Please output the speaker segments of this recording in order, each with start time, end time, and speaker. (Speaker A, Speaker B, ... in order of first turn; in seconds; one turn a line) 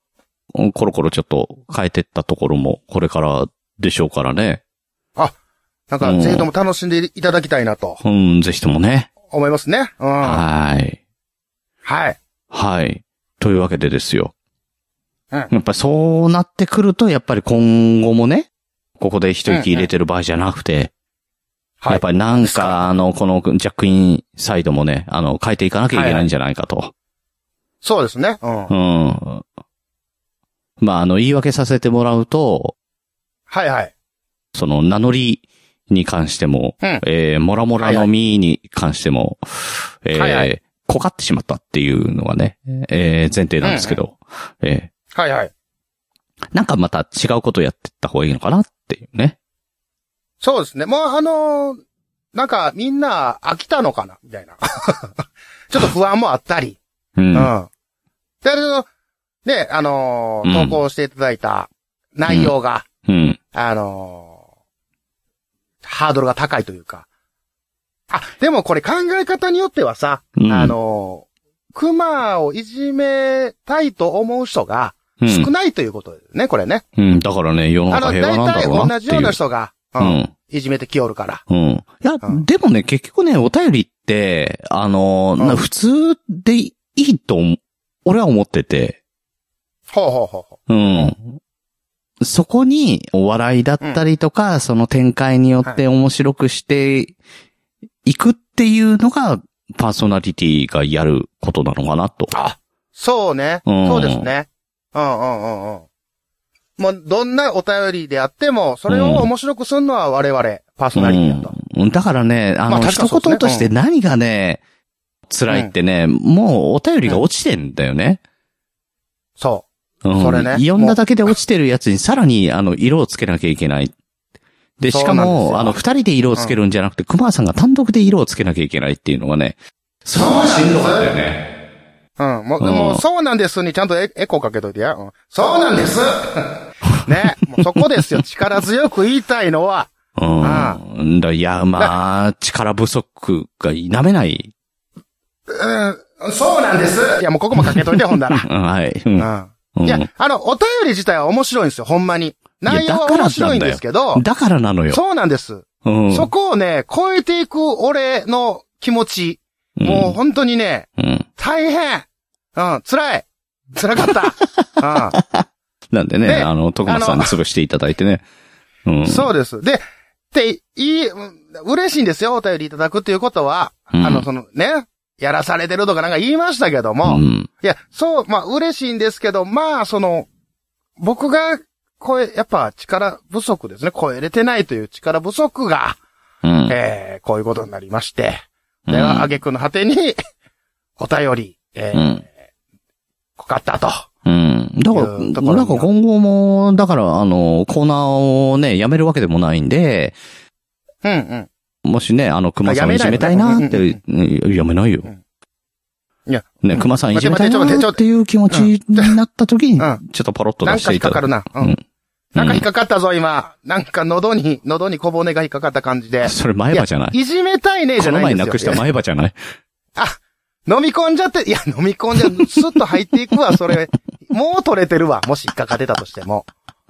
Speaker A: 0.5-4.6
Speaker B: 5.9-8.0
Speaker A: 6.0-6.5
Speaker A: 8.0-9.1
Speaker B: 9.3-10.4
Speaker A: 10.2-11.0
Speaker B: 11.8-12.2
Speaker A: 12.5-14.3
Speaker A: 15.5-18.5
Speaker A: 19.0-20.9
Speaker B: 19.5-19.9
Speaker B: 21.8-22.8
Speaker A: 21.9-26.9
Speaker B: 25.9-26.3
Speaker B: 27.8-28.7
Speaker A: 28.7-29.4
Speaker A: 30.8-32.8
Speaker B: 33.5-33.9
Speaker A: 34.5-44.9
Speaker B: 37.8-38.1
Speaker B: 40.1-40.5
Speaker B: 43.6-44.0
Speaker B: 45.1-45.5
Speaker A: 46.5-49.4
Speaker B: 50.4-51.8
Speaker B: 52.3-56.8
Speaker A: 57.2-57.5
Speaker B: 57.3-57.7
Speaker B: 58.4-58.9
Speaker B: 59.5-62.9
Speaker A: 60.4-60.8
Speaker A: 62.3-62.5
Speaker A: 63.1-63.4
Speaker B: 63.5-64.3
Speaker B: 65.8-67.0
Speaker B: 68.1-76.8
Speaker A: 70.4-70.8
Speaker A: 75.2-75.5
Speaker A: 77.0-79.4
Speaker B: 77.9-81.4
Speaker A: 80.0-80.3
Speaker A: 81.5-89.0
Speaker B: 89.9-91.1
Speaker A: 90.7-91.4
Speaker A: 92.2-97.2
Speaker A: 98.0-102.3
Speaker B: 102.3-105.8
Speaker A: 103.7-104.3
Speaker B: 106.8-111.5
Speaker A: 108.9-109.3
Speaker A: 111.0-114.6
Speaker B: 112.7-113.7
Speaker A: 115.3-118.2
Speaker B: 119.4-121.0
Speaker A: 120.0-123.9
Speaker A: 124.8-131.4
Speaker B: 124.9-125.8
Speaker B: 130.2-131.1
Speaker B: 132.2-136.4
Speaker A: 132.6-133.0
Speaker B: 137.1-139.9
Speaker A: 140.2-144.5
Speaker B: 140.4-140.8
Speaker B: 145.5-148.5
Speaker A: 148.3-150.1
Speaker B: 149.2-154.2
Speaker A: 152.7-155.0
Speaker B: 154.9-165.2
Speaker A: 155.8-156.3
Speaker A: 159.8-160.2
Speaker A: 161.0-161.3
Speaker A: 165.1-168.2
Speaker B: 166.2-167.3
Speaker A: 168.9-169.3
Speaker B: 169.1-180.3
Speaker A: 173.9-174.2
Speaker A: 177.0-177.5
Speaker B: 181.0-186.0
Speaker A: 186.4-186.8
Speaker B: 186.7-190.2
Speaker A: 188.9-189.3
Speaker B: 191.0-192.3
Speaker A: 191.9-192.2
Speaker B: 193.4-194.1
Speaker A: 194.3-200.2
Speaker B: 194.9-195.9
Speaker B: 201.0-201.5
Speaker A: 201.8-205.1
Speaker B: 202.7-204.0
Speaker B: 206.3-209.1
Speaker A: 206.6-211.8
Speaker B: 210.6-211.8
Speaker B: 212.3-218.8
Speaker A: 212.4-212.6
Speaker A: 216.2-217.2
Speaker A: 218.0-219.4
Speaker B: 220.0-226.5